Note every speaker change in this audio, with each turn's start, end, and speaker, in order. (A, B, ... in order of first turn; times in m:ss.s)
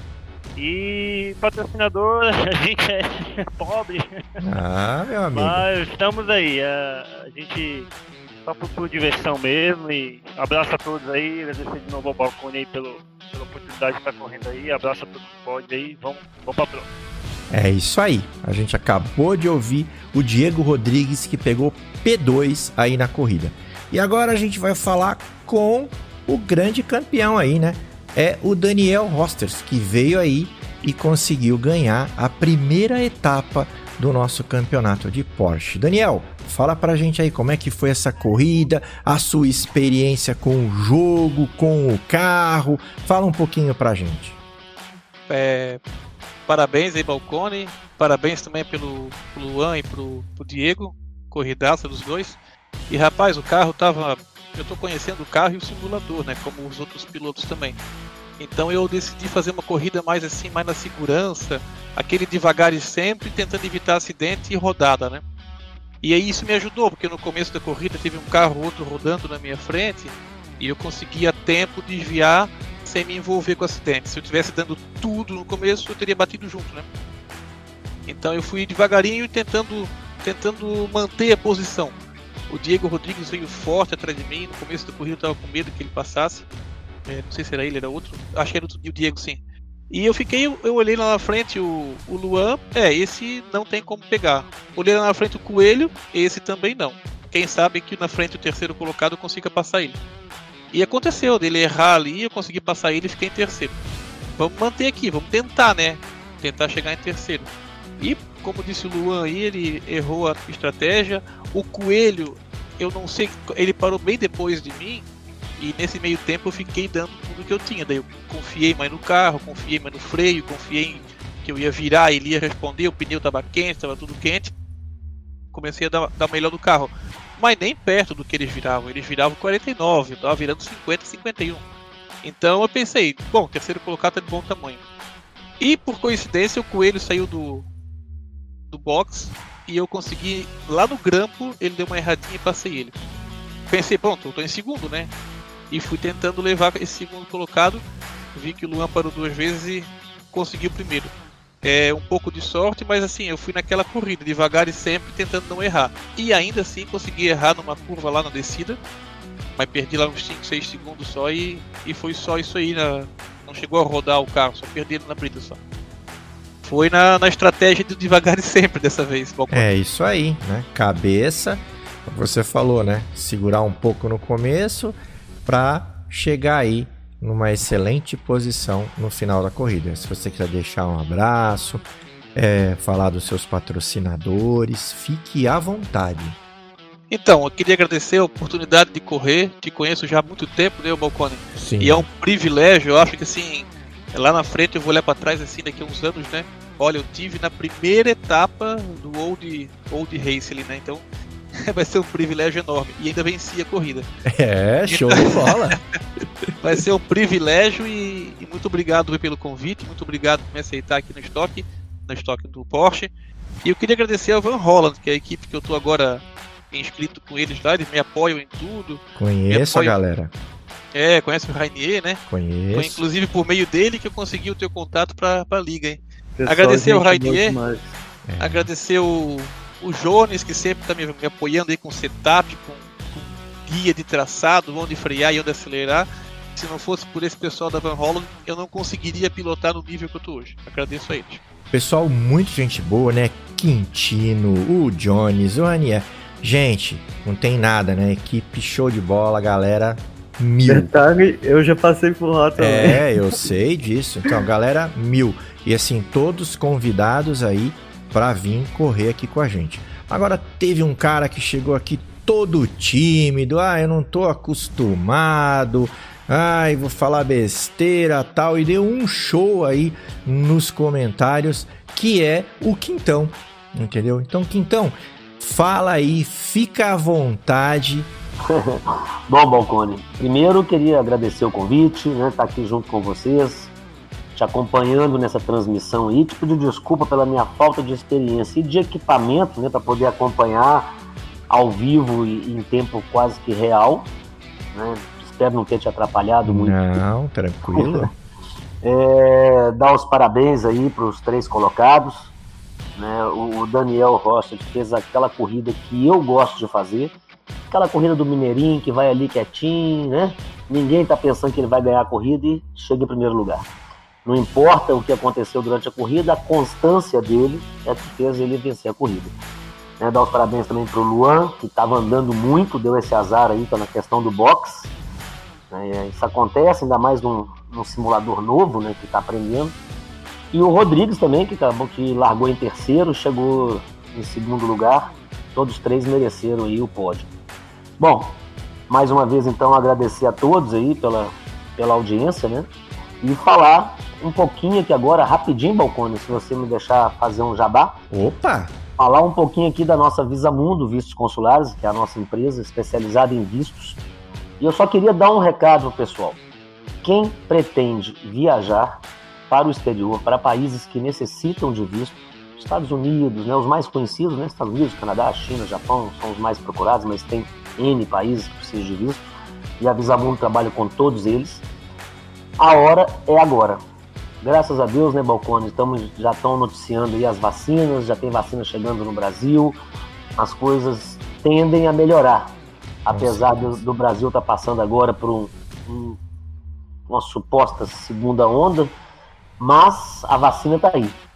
0:00.6-0:04.4 A
0:04.4-0:05.6 B
0:05.4-0:07.9 A
0:08.4-0:16.9 A
0:17.5-0:44.4 B
0:45.3-0:45.8 C
0:46.5-0:52.4 C
0:52.9-0:57.8 C
0:58.4-1:05.2 C
1:06.0-1:16.9 C
1:18.1-1:22.0 C
1:22.5-1:26.4 C
1:27.1-1:40.0 C
1:40.7-1:43.8 C
1:44.4-1:55.1 C
1:55.6-2:04.5 C
2:05.5-2:11.6 C
2:12.2-2:14.8 C
2:15.6-2:17.7 C
2:18.7-2:22.9 C
2:23.7-2:25.1 C
2:25.7-2:27.8 C
2:28.4-2:38.8 C
2:39.6-2:45.6 C
2:46.6-2:49.7 C
2:49.5-3:06.4 B
3:07.1-3:21.0 C
3:11.6-3:12.1 B
3:21.6-3:24.1 C
3:24.3-3:25.8 B
3:24.9-3:25.7 C
3:26.6-3:33.1 C
3:33.6-3:40.0 C
3:39.2-3:40.3 B
3:40.9-3:47.6 C
3:42.3-3:43.0 B
3:46.4-3:47.9 D
3:48.2-3:48.7 B
3:48.4-4:01.4 C
4:01.7-4:10.9 B
4:10.7-4:13.1 D
4:12.6-4:38.1 B
4:38.5-4:43.7 E
4:44.4-4:50.9 E
4:51.5-4:54.1 E
4:54.7-4:56.9 E
4:56.4-4:58.1 B
4:57.7-4:58.1 E
4:58.8-5:02.3 E
5:03.0-5:07.1 E
5:07.7-5:13.7 E
5:14.2-5:19.4 E
5:20.0-5:24.9 E
5:25.7-5:29.8 E
5:30.5-5:37.3 E
5:38.0-5:42.7 E
5:43.2-5:48.0 E
5:48.1-5:48.8 B
5:49.0-5:54.0 E
5:54.6-5:56.4 E
5:57.0-6:09.3 E
6:09.8-6:11.6 E
6:12.6-6:13.8 E
6:14.4-6:19.8 E
6:20.4-6:22.5 E
6:23.0-6:26.2 E
6:23.1-6:23.8 B
6:27.1-6:28.9 E
6:29.6-6:31.2 E